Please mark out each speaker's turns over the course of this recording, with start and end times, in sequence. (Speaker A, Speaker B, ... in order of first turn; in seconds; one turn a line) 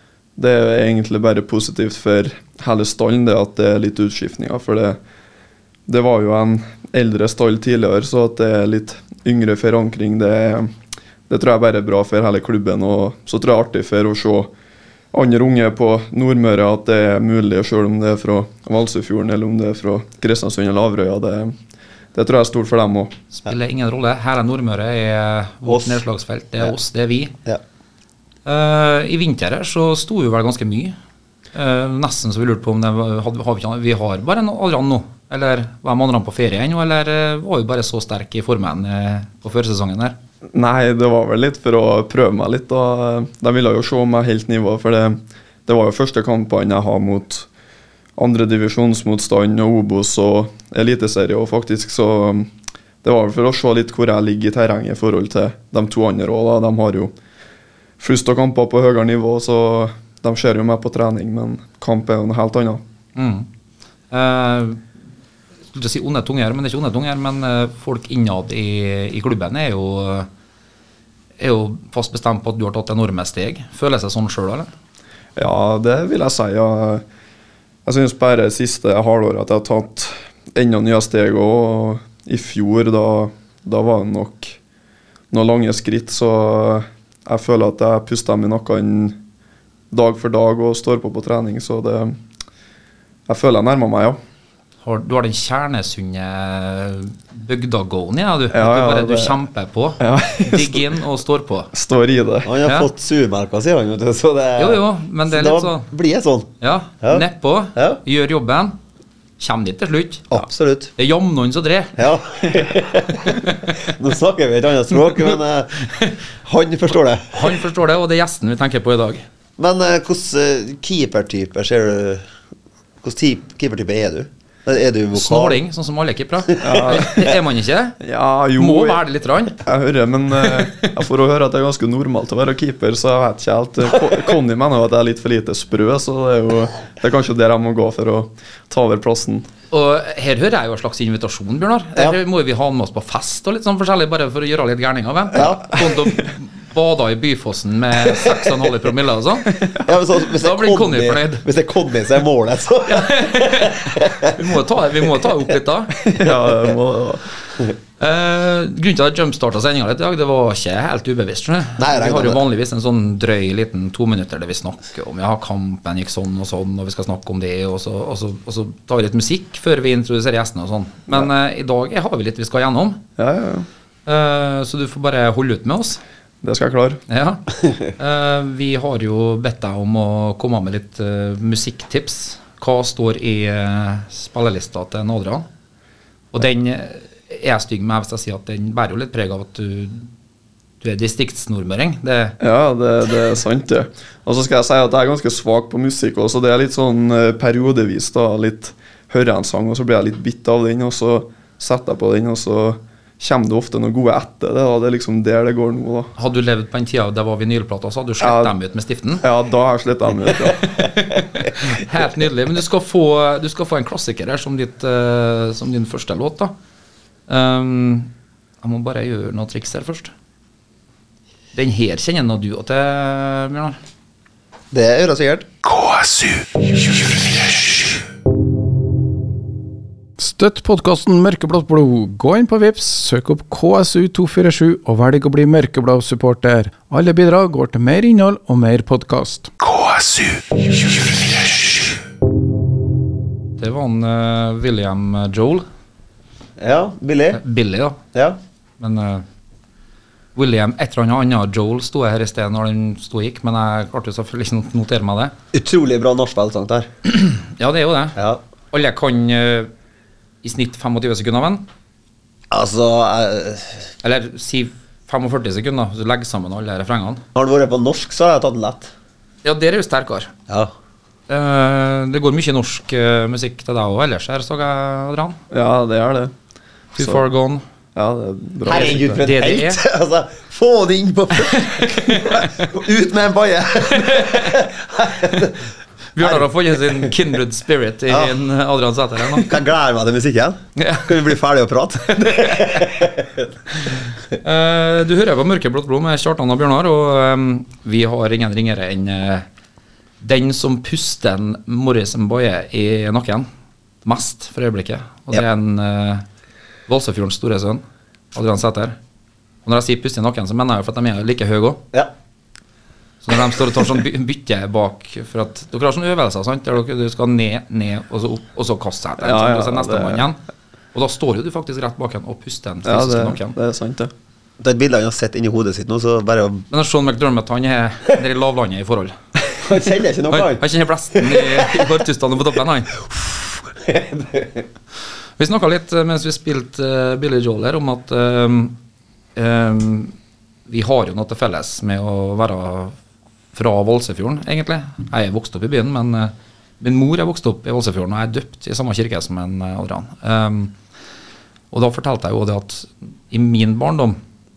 Speaker A: 0.4-5.0
Speaker A: 5.9-10.7
Speaker A: 11.3-14.5
Speaker A: 15.1-21.5
Speaker A: 22.1-23.1
Speaker B: 23.3-27.3
Speaker C: 25.6-26.0
Speaker B: 28.4-30.9
Speaker B: 31.5-40.2
Speaker A: 40.5-47.5
Speaker A: 48.2-52.5
Speaker A: 53.0-57.1
Speaker A: 58.0-62.8
Speaker B: 63.1-63.5
Speaker B: 64.1-64.8
Speaker B: 65.7-70.3
Speaker B: 71.4-74.7
Speaker A: 75.3-77.0
Speaker A: 77.8-84.6
Speaker A: 85.3-89.2
Speaker A: 89.9-92.2
Speaker A: 93.3-94.2
Speaker B: 94.8-101.7
Speaker A: 98.5-99.4
Speaker A: 100.0-100.8
Speaker A: 101.7-102.5
Speaker C: 102.5-106.5
Speaker B: 102.6-102.9
Speaker B: 104.6-105.9
Speaker B: 106.6-108.8
Speaker C: 107.0-108.0
Speaker B: 109.4-112.0
Speaker C: 110.3-110.9
Speaker C: 112.0-115.8
Speaker B: 113.2-113.7
Speaker C: 116.4-117.3
Speaker B: 117.3-119.2
Speaker C: 119.6-122.2
Speaker C: 123.0-125.6
Speaker B: 125.2-128.0
Speaker A: 126.6-127.3
Speaker A: 128.0-129.0
Speaker B: 128.6-129.6
Speaker A: 129.6-139.4
Speaker B: 130.4-130.8
Speaker B: 139.7-149.6
Speaker C: 145.3-145.9
Speaker C: 149.8-154.4
Speaker B: 150.3-151.4
Speaker B: 152.9-155.9
Speaker A: 156.0-157.3
Speaker B: 158.0-173.0
Speaker C: 161.8-162.4
Speaker A: 173.2-173.7
Speaker B: 174.1-176.0
Speaker A: 176.4-177.0
Speaker B: 177.1-185.4
Speaker B: 186.3-190.1
Speaker B: 190.8-192.4
Speaker A: 192.4-206.1
Speaker B: 206.2-209.2
Speaker A: 208.2-208.6
Speaker A: 209.2-210.9
Speaker B: 210.8-216.5
Speaker B: 217.3-218.1
Speaker B: 218.6-220.1
Speaker B: 221.5-223.8
Speaker C: 224.7-225.5
Speaker D: 225.6-228.0
Speaker E: 230.2-239.5
Speaker D: 239.6-242.0
Speaker B: 243.6-245.6
Speaker C: 246.6-247.4
Speaker B: 247.3-248.0
Speaker B: 248.8-249.2
Speaker B: 250.3-255.3
Speaker C: 255.5-256.9
Speaker B: 257.1-258.2
Speaker C: 258.1-258.4
Speaker B: 258.7-259.7
Speaker B: 260.4-261.7
Speaker C: 262.5-263.9
Speaker B: 264.0-267.2
Speaker C: 267.3-268.9
Speaker B: 269.4-270.3
Speaker B: 271.3-275.4
Speaker A: 275.5-276.3
Speaker B: 276.9-277.6
Speaker A: 277.9-279.2
Speaker B: 278.6-279.8
Speaker C: 278.6-285.6
Speaker B: 281.4-282.7
Speaker B: 283.9-284.7
Speaker B: 286.1-289.5
Speaker C: 286.2-287.1
Speaker C: 288.1-288.4
Speaker C: 289.3-293.5
Speaker B: 290.8-291.1
Speaker B: 292.1-293.0
Speaker B: 294.4-299.4
Speaker B: 300.2-303.5
Speaker B: 304.0-306.2
Speaker B: 306.9-308.9
Speaker B: 309.6-311.8
Speaker B: 313.2-320.4
Speaker A: 319.2-320.3
Speaker B: 320.9-323.6
Speaker A: 322.8-324.1
Speaker C: 324.6-326.6
Speaker B: 326.7-329.1
Speaker C: 329.6-331.9
Speaker B: 330.3-332.9
Speaker C: 333.1-334.7
Speaker B: 335.4-338.8
Speaker B: 339.4-340.1
Speaker B: 340.7-342.9
Speaker B: 343.5-350.7
Speaker B: 351.7-354.2